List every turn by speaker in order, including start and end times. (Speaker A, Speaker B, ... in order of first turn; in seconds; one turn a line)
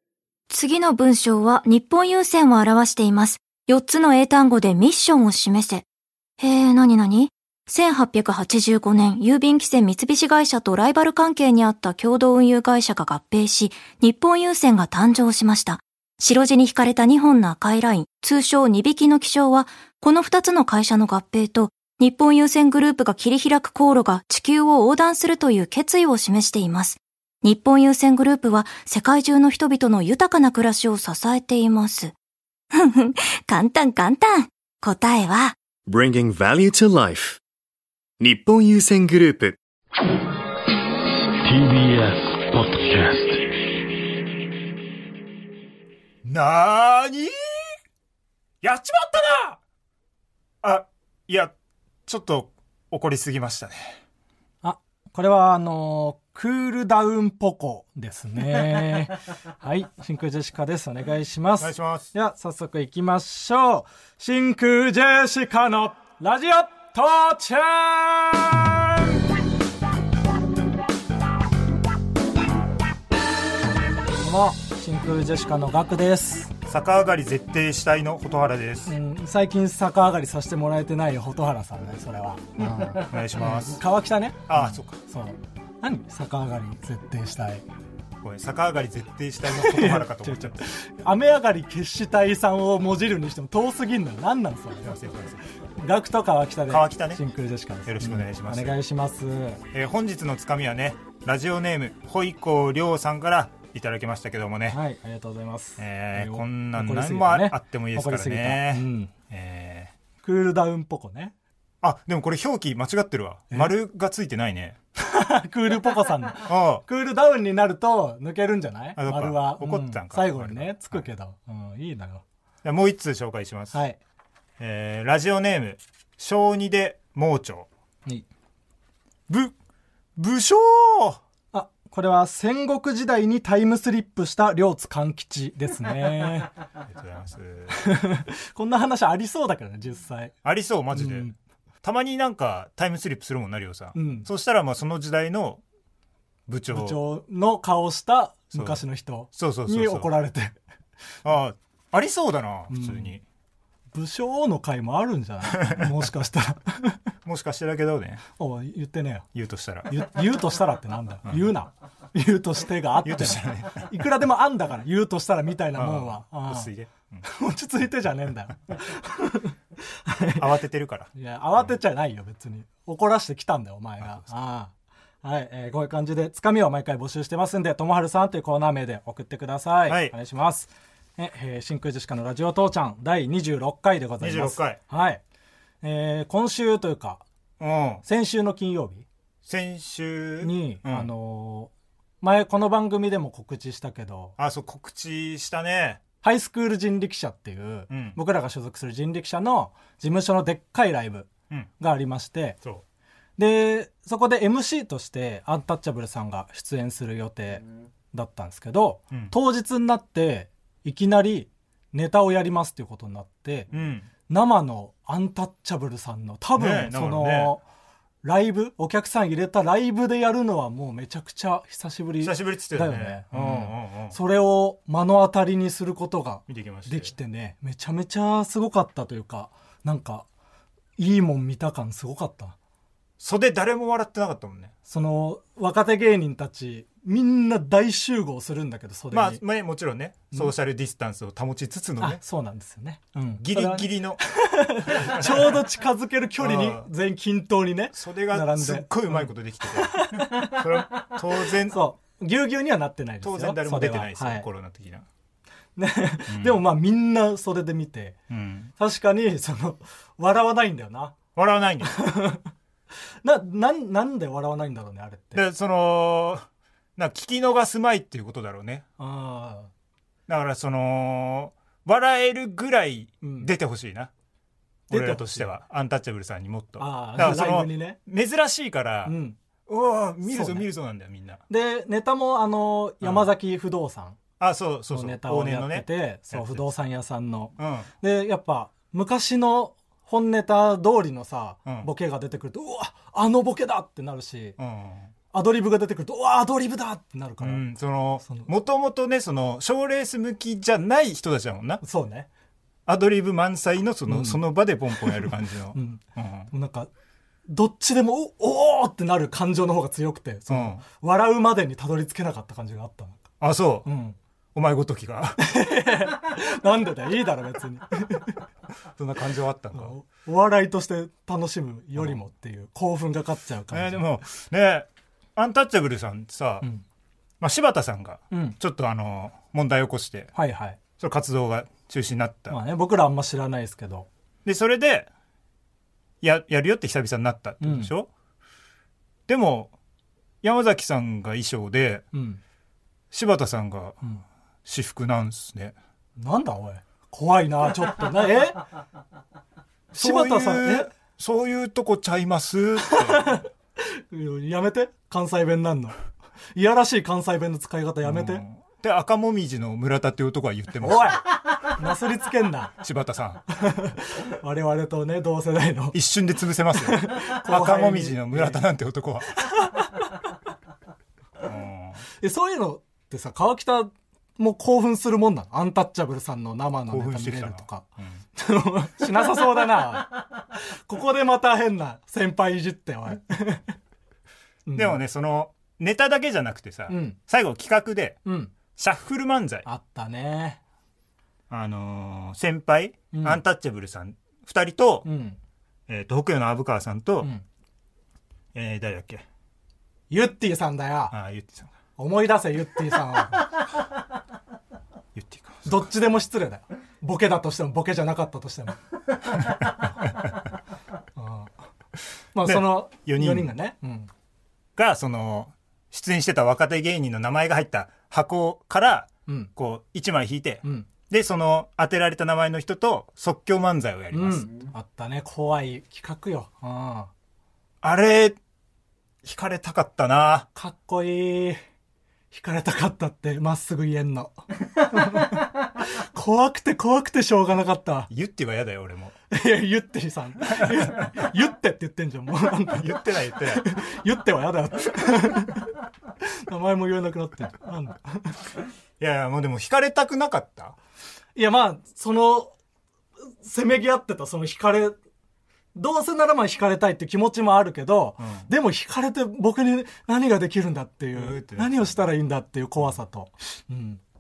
Speaker A: 0.5-5.8
Speaker A: 6.4-32.1
Speaker A: 32.7-35.6
Speaker B: 35.9-37.4
Speaker B: 38.2-39.6
Speaker C: 41.4-43.4
Speaker D: 46.2-47.3
Speaker D: 48.6-49.6
Speaker D: 50.6-51.5
Speaker D: 52.1-54.0
Speaker E: 54.6-69.0
Speaker D: 61.6-62.1
Speaker E: 74.2-76.5
Speaker D: 76.7-79.0
Speaker E: 78.9-87.7
Speaker D: 82.6-83.8
Speaker D: 84.5-85.0
Speaker D: 88.2-90.7
Speaker E: 89.5-95.0
Speaker D: 94.8-95.4
Speaker E: 95.8-99.6
Speaker D: 96.7-97.2
Speaker D: 97.9-98.8
Speaker D: 99.7-104.8
Speaker E: 104.7-109.1
Speaker D: 105.8-109.9
Speaker E: 110.2-111.3
Speaker D: 111.8-114.8
Speaker E: 115.0-122.2
Speaker D: 116.5-116.8
Speaker D: 119.0-121.1
Speaker D: 122.6-123.8
Speaker E: 123.7-124.0
Speaker D: 124.6-127.7
Speaker D: 129.3-129.5
Speaker D: 130.2-131.2
Speaker E: 131.5-136.5
Speaker D: 136.8-137.8
Speaker E: 137.7-140.3
Speaker D: 140.4-145.6
Speaker E: 140.9-141.3
Speaker E: 143.9-144.3
Speaker D: 146.5-147.0
Speaker E: 146.7-150.6
Speaker D: 148.5-148.8
Speaker D: 149.3-150.1
Speaker D: 151.2-153.2
Speaker E: 152.7-153.2
Speaker E: 153.9-157.0
Speaker D: 155.6-155.9
Speaker D: 157.2-158.2
Speaker E: 158.4-159.3
Speaker D: 159.3-159.9
Speaker E: 159.9-166.7
Speaker D: 163.0-163.9
Speaker D: 165.7-167.2
Speaker E: 167.2-170.5
Speaker D: 170.4-171.1
Speaker E: 171.2-185.2
Speaker D: 179.9-180.2
Speaker D: 184.2-184.8
Speaker E: 185.8-187.2
Speaker D: 187.6-188.0
Speaker E: 188.1-189.1
Speaker D: 189.4-191.1
Speaker E: 190.4-194.4
Speaker D: 194.4-196.0
Speaker E: 196.2-202.6
Speaker D: 197.9-198.2
Speaker E: 203.4-213.7
Speaker D: 213.7-214.1
Speaker E: 214.3-217.6
Speaker D: 216.6-217.6
Speaker E: 218.2-230.3
Speaker D: 222.2-224.2
Speaker D: 226.5-227.2
Speaker E: 231.0-232.6
Speaker D: 233.2-234.7
Speaker E: 234.9-239.4
Speaker D: 239.1-242.2
Speaker E: 242.0-254.5
Speaker D: 243.4-244.2
Speaker D: 244.8-245.6
Speaker D: 246.4-246.9
Speaker D: 247.9-251.8
Speaker D: 253.2-255.1
Speaker E: 255.8-258.2
Speaker D: 256.3-256.6
Speaker D: 258.3-258.7
Speaker E: 258.8-261.2
Speaker D: 261.4-262.0
Speaker E: 261.9-262.4
Speaker E: 263.2-265.4
Speaker D: 265.3-268.9
Speaker E: 269.0-269.7
Speaker D: 270.3-274.1
Speaker E: 273.2-273.5
Speaker E: 274.9-275.5
Speaker D: 274.9-279.2
Speaker E: 276.8-278.0
Speaker E: 279.1-279.4
Speaker D: 279.7-281.4
Speaker E: 280.3-280.7
Speaker E: 281.5-284.2
Speaker D: 283.0-283.3
Speaker D: 284.4-286.7
Speaker E: 284.9-294.6
Speaker D: 287.6-287.9
Speaker D: 294.6-295.1
Speaker E: 295.3-297.6
Speaker D: 297.4-301.8
Speaker E: 298.2-298.5
Speaker E: 301.8-302.3
Speaker D: 302.9-306.5
Speaker E: 304.1-304.4
Speaker E: 305.7-306.9
Speaker E: 307.5-313.3
Speaker D: 310.5-310.8
Speaker D: 313.4-313.9
Speaker E: 313.9-314.2
Speaker D: 314.6-315.4
Speaker E: 315.4-318.4
Speaker D: 319.0-319.9
Speaker E: 319.7-324.1
Speaker D: 323.7-326.7
Speaker D: 327.4-330.3
Speaker E: 328.3-328.6
Speaker E: 330.4-330.8
Speaker D: 331.0-332.6
Speaker E: 332.5-334.1
Speaker D: 334.4-335.1
Speaker D: 336.2-338.1
Speaker E: 337.6-337.9
Speaker D: 339.3-339.7
Speaker D: 340.4-342.1
Speaker E: 342.1-342.4
Speaker D: 343.1-344.0
Speaker D: 344.6-345.8
Speaker E: 346.2-348.7
Speaker D: 349.9-353.4
Speaker E: 349.9-350.9
Speaker E: 352.9-356.0
Speaker E: 356.6-358.4
Speaker D: 358.0-361.2
Speaker E: 360.8-362.8
Speaker D: 362.8-363.4
Speaker E: 363.5-366.0
Speaker D: 365.9-369.5
Speaker E: 366.8-368.6
Speaker E: 369.4-370.1
Speaker D: 371.4-372.0
Speaker E: 372.2-383.7
Speaker D: 376.9-378.2
Speaker E: 384.7-385.0
Speaker D: 384.7-388.2
Speaker E: 386.9-387.2
Speaker E: 388.2-388.5
Speaker D: 388.8-389.7
Speaker E: 389.6-390.6
Speaker D: 391.5-395.1
Speaker E: 393.1-393.4
Speaker E: 395.1-395.4
Speaker D: 395.9-397.3
Speaker D: 398.5-399.2
Speaker E: 400.1-401.1
Speaker D: 401.1-401.7
Speaker E: 402.0-403.5
Speaker D: 405.1-405.8
Speaker E: 405.6-408.8
Speaker E: 411.2-411.5
Speaker E: 412.4-414.1
Speaker D: 412.5-413.5
Speaker D: 414.8-424.5
Speaker E: 424.1-427.1
Speaker D: 427.8-428.4
Speaker D: 429.2-430.5
Speaker E: 430.6-431.6
Speaker E: 432.3-438.1
Speaker D: 438.1-439.1
Speaker E: 439.3-445.7
Speaker D: 440.5-441.1
Speaker D: 442.7-443.7
Speaker E: 446.2-448.4
Speaker D: 449.0-450.8
Speaker E: 451.4-452.6
Speaker E: 453.4-455.0
Speaker E: 455.8-464.0
Speaker D: 458.2-458.5
Speaker D: 461.1-462.1